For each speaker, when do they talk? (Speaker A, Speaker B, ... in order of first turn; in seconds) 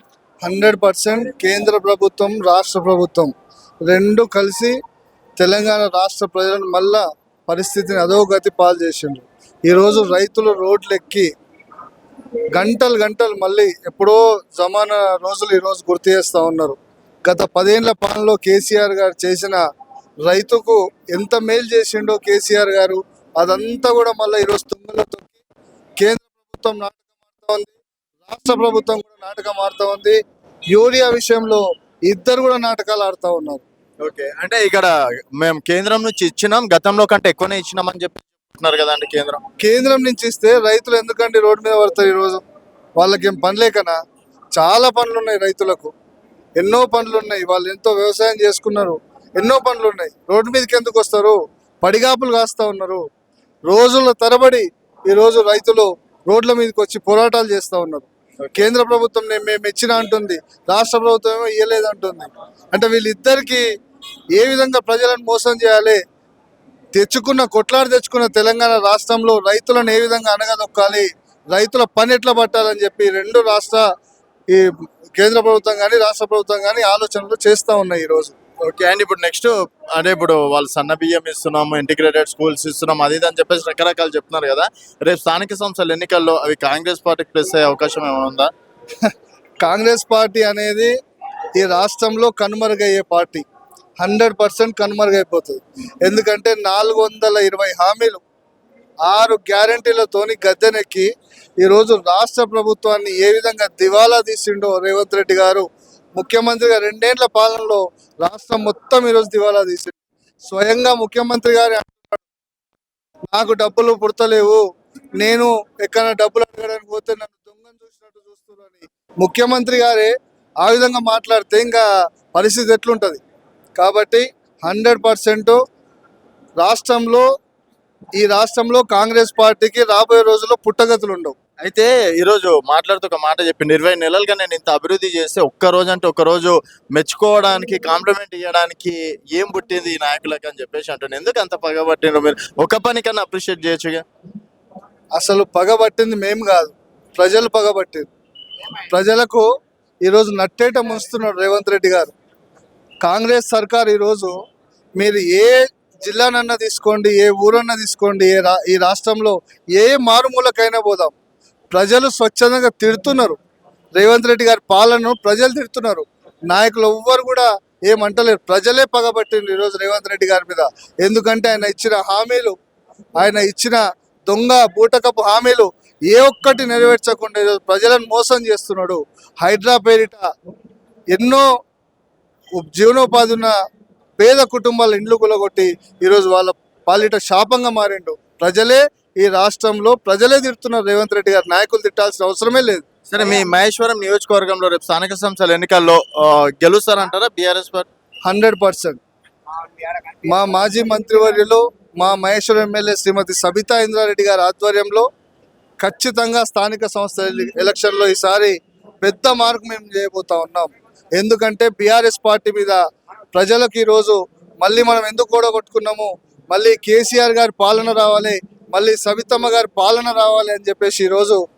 Speaker A: 0.4-3.3, 3.9-4.8, 5.4-11.3, 12.5-19.6, 20.3-25.4, 26.0-30.2, 30.7-33.6, 39.6-42.4, 43.0-44.0, 44.6-45.9, 46.6-53.0, 53.7-63.7, 64.4-66.0, 66.9-73.8, 74.5-78.3, 89.6-90.9, 91.6-93.4, 94.0-98.2, 99.1-101.1, 101.6-110.0, 110.5-112.2, 113.3-114.6, 115.2-123.2, 123.8-125.6, 126.6-127.2, 128.2-131.4, 145.2-148.1, 148.9-149.5, 150.1-152.1, 153.0-154.3, 155.0-161.2, 161.7-163.4, 164.0-172.6, 173.2-180.2, 181.1-181.5, 182.6-183.5, 184.2-192.9, 198.3-199.0, 200.3-205.1, 205.8-212.8, 213.3-221.4
Speaker B: 34.0-39.4, 78.7-88.5, 131.6-144.0, 193.1-197.9